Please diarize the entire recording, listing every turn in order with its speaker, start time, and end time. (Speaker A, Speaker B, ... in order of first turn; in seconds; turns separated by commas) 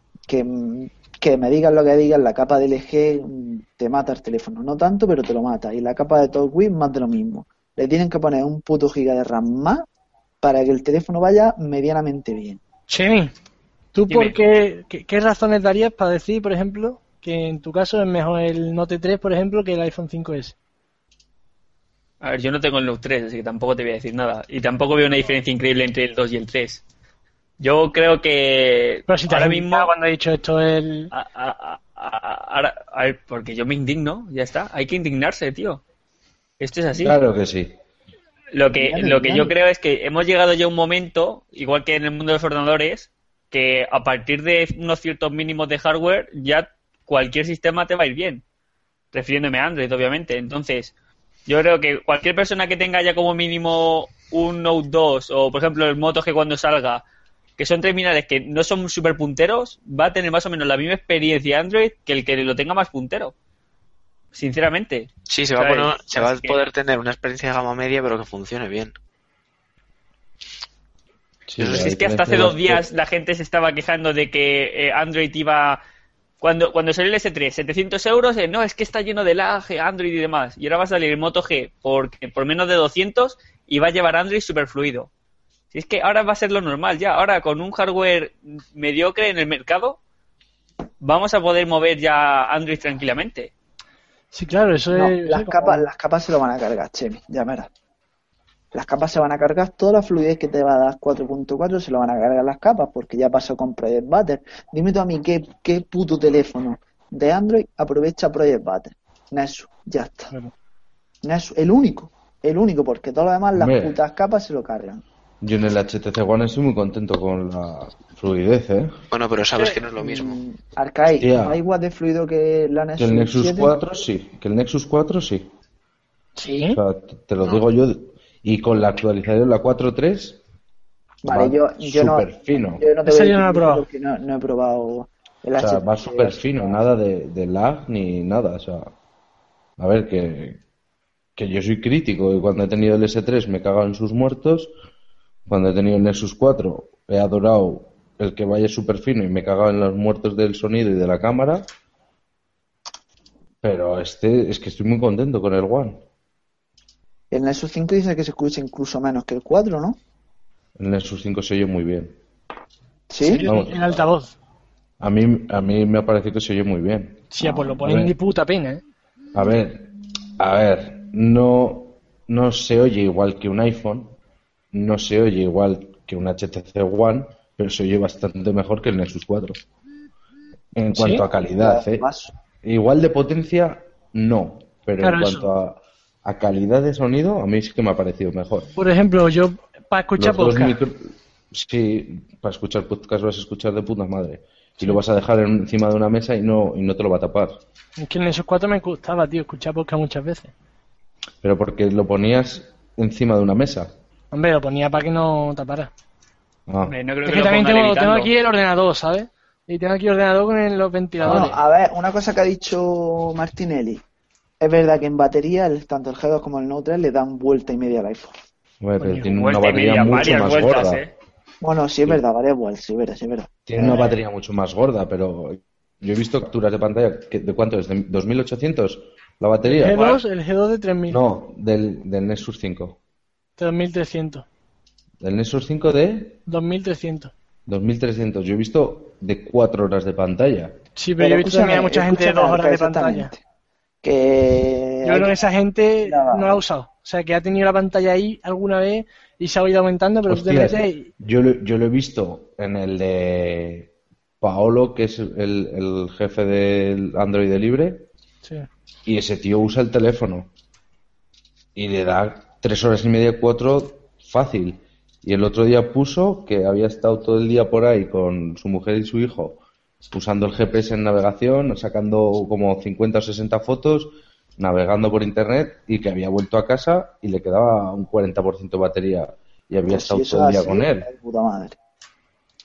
Speaker A: 0.3-9.9, Speaker A: 10.4-12.6, Speaker B: 12.9-13.3, Speaker B: 13.9-20.6, Speaker C: 14.1-14.4, Speaker C: 22.2-26.8, Speaker C: 27.6-29.9, Speaker B: 29.1-31.1, Speaker C: 31.1-35.8, Speaker C: 36.6-37.2, Speaker D: 37.0-37.7, Speaker C: 38.5-48.4, Speaker A: 38.8-39.5, Speaker C: 49.1-50.9, Speaker C: 51.5-57.0, Speaker C: 57.6-63.3, Speaker C: 64.3-66.6, Speaker E: 65.3-69.0, Speaker D: 71.5-72.8, Speaker E: 71.6-71.9, Speaker C: 71.7-75.8, Speaker C: 76.4-85.1, Speaker C: 85.7-90.0, Speaker C: 91.0-93.5, Speaker B: 94.3-95.9, Speaker A: 94.9-97.7, Speaker A: 98.7-110.3, Speaker A: 111.2-115.0, Speaker D: 113.5-114.0, Speaker D: 115.4-118.9, Speaker E: 119.1-120.4, Speaker A: 120.0-123.8, Speaker D: 121.2-121.6, Speaker D: 123.0-125.5, Speaker B: 126.4-126.8, Speaker D: 126.7-130.4, Speaker A: 131.2-136.8, Speaker D: 131.3-132.8, Speaker B: 133.1-133.9, Speaker D: 135.6-138.9, Speaker D: 139.8-140.6, Speaker D: 141.4-144.7, Speaker D: 145.5-151.7, Speaker D: 153.6-156.0, Speaker A: 157.3-160.0, Speaker D: 160.8-162.2, Speaker A: 163.1-163.5, Speaker B: 163.2-164.3, Speaker D: 163.4-164.0, Speaker D: 165.0-167.3, Speaker B: 167.3-168.8, Speaker A: 167.4-167.8, Speaker D: 167.8-168.1, Speaker D: 169.3-174.2, Speaker D: 174.7-179.6, Speaker D: 180.8-182.1, Speaker B: 180.9-181.2, Speaker A: 181.6-182.3, Speaker D: 182.6-188.7, Speaker B: 185.0-185.5, Speaker B: 188.8-190.8, Speaker D: 190.2-197.6, Speaker B: 198.0-200.5, Speaker D: 201.4-203.9, Speaker B: 204.3-205.9, Speaker D: 206.7-206.9, Speaker C: 206.9-208.3, Speaker B: 207.3-211.6, Speaker D: 211.2-211.6, Speaker A: 211.2-214.0, Speaker A: 214.6-218.3, Speaker D: 218.8-221.0, Speaker B: 219.0-219.3, Speaker C: 219.3-221.1, Speaker A: 221.6-224.1, Speaker D: 223.7-230.2, Speaker B: 229.7-231.2, Speaker C: 229.9-230.2, Speaker D: 231.1-233.0, Speaker B: 233.6-234.5, Speaker D: 235.2-236.4, Speaker B: 236.5-237.3, Speaker D: 237.7-240.8, Speaker B: 241.0-243.3, Speaker A: 241.2-243.4, Speaker A: 244.0-245.3, Speaker B: 245.0-251.1, Speaker A: 246.0-246.6, Speaker D: 250.3-253.9, Speaker D: 254.4-258.1, Speaker D: 259.1-260.5, Speaker D: 261.8-281.1, Speaker A: 279.9-281.8